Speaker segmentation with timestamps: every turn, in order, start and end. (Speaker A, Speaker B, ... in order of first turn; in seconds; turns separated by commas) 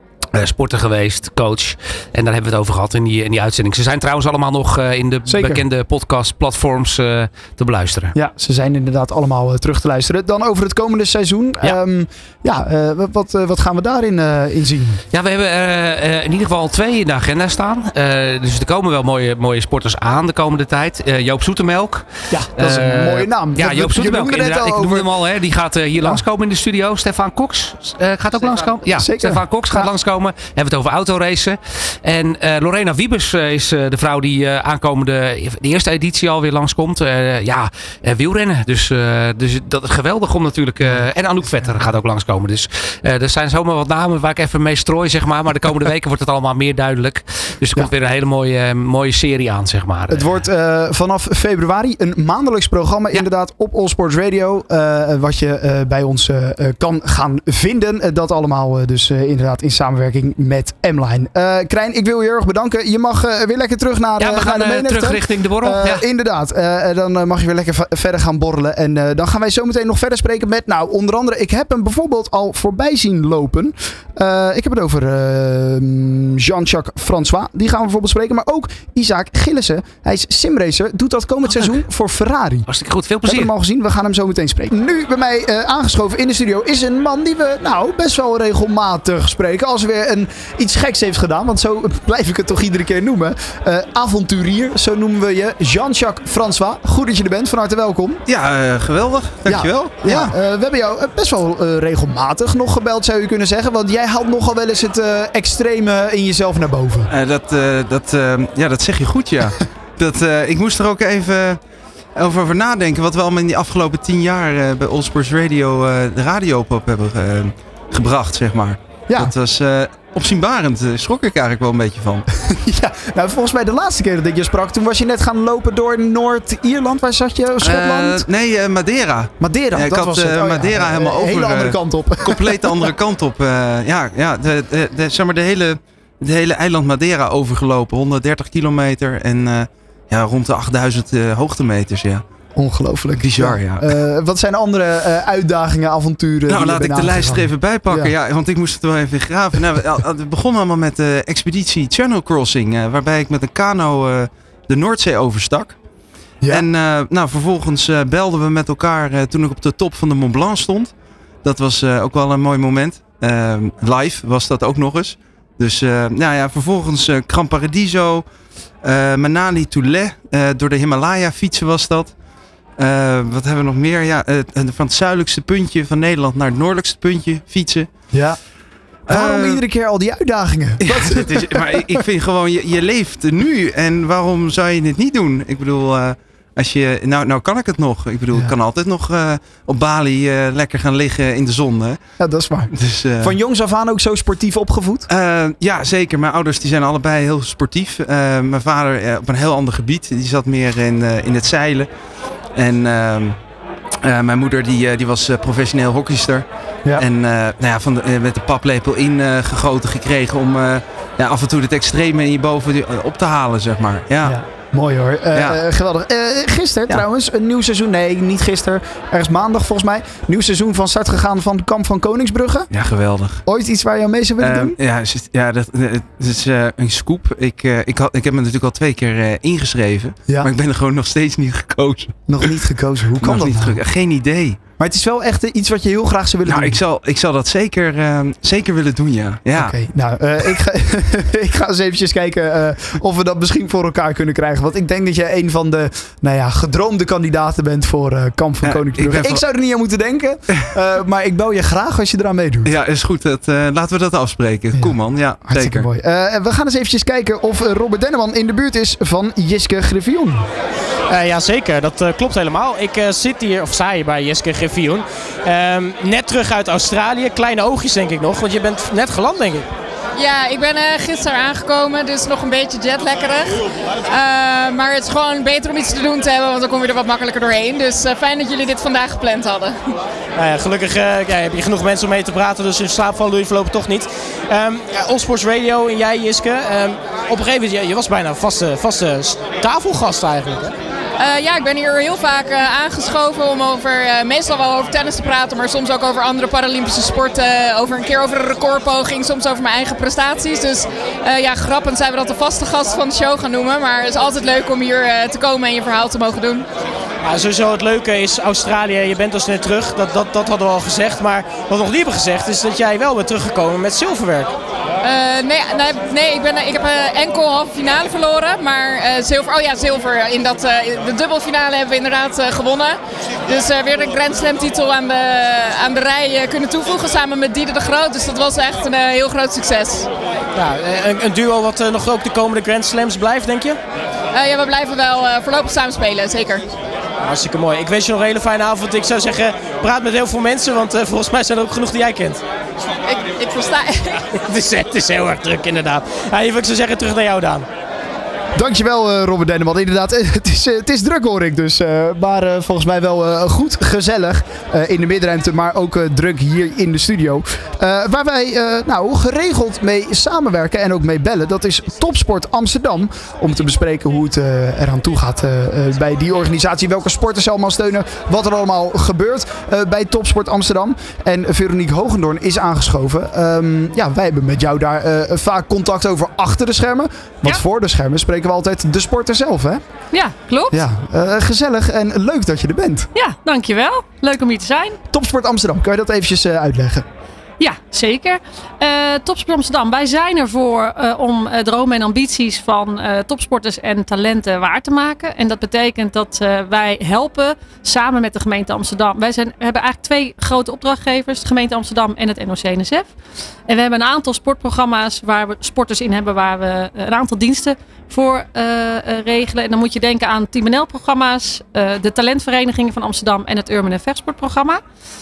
Speaker A: 0.3-8.1, Speaker B: 5.3-5.6, Speaker B: 8.1-15.0, Speaker A: 15.1-50.5, Speaker B: 22.3-25.1, Speaker B: 28.4-29.9, Speaker B: 50.1-82.7, Speaker A: 64.2-66.0, Speaker A: 81.5-81.7, Speaker A: 82.7-83.5, Speaker B: 83.2-98.2, Speaker C: 98.2-100.2, Speaker B: 99.5-107.1, Speaker C: 107.1-111.6, Speaker C: 112.2-122.2, Speaker B: 119.1-119.3, Speaker B: 122.4-128.2, Speaker C: 127.6-142.2, Speaker B: 129.4-132.9, Speaker B: 142.6-148.1, Speaker C: 143.2-143.9, Speaker C: 146.5-155.8, Speaker C: 156.5-168.2, Speaker C: 168.8-172.1, Speaker C: 172.8-177.9, Speaker B: 178.1-178.4, Speaker C: 179.1-179.6, Speaker B: 179.1-182.0, Speaker C: 180.8-192.0, Speaker B: 192.2-195.1, Speaker C: 192.7-193.3, Speaker C: 195.1-201.9, Speaker C: 202.5-203.3, Speaker C: 204.0-214.4, Speaker B: 214.2-222.7, Speaker C: 215.3-215.6, Speaker C: 222.7-223.4, Speaker B: 223.4-224.8, Speaker C: 224.4-232.5, Speaker B: 232.3-233.8, Speaker C: 233.2-234.6, Speaker B: 234.8-236.8, Speaker C: 236.4-239.7, Speaker B: 239.5-252.7, Speaker C: 248.6-249.4, Speaker C: 252.6-255.9, Speaker B: 254.7-260.4, Speaker D: 261.1-269.7, Speaker E: 270.1-279.7, Speaker D: 280.4-290.7, Speaker E: 291.2-306.6, Speaker D: 307.2-314.5, Speaker E: 315.0-330.1, Speaker D: 330.5-333.8, Speaker E: 334.3-336.7, Speaker D: 337.2-342.4, Speaker E: 343.1-344.2, Speaker D: 344.3-347.6, Speaker B: 348.6-379.8, Speaker F: 380.1-380.8, Speaker B: 380.7-383.1, Speaker F: 383.1-385.0, Speaker B: 385.1-387.1, Speaker F: 387.6-403.1, Speaker F: 403.7-414.8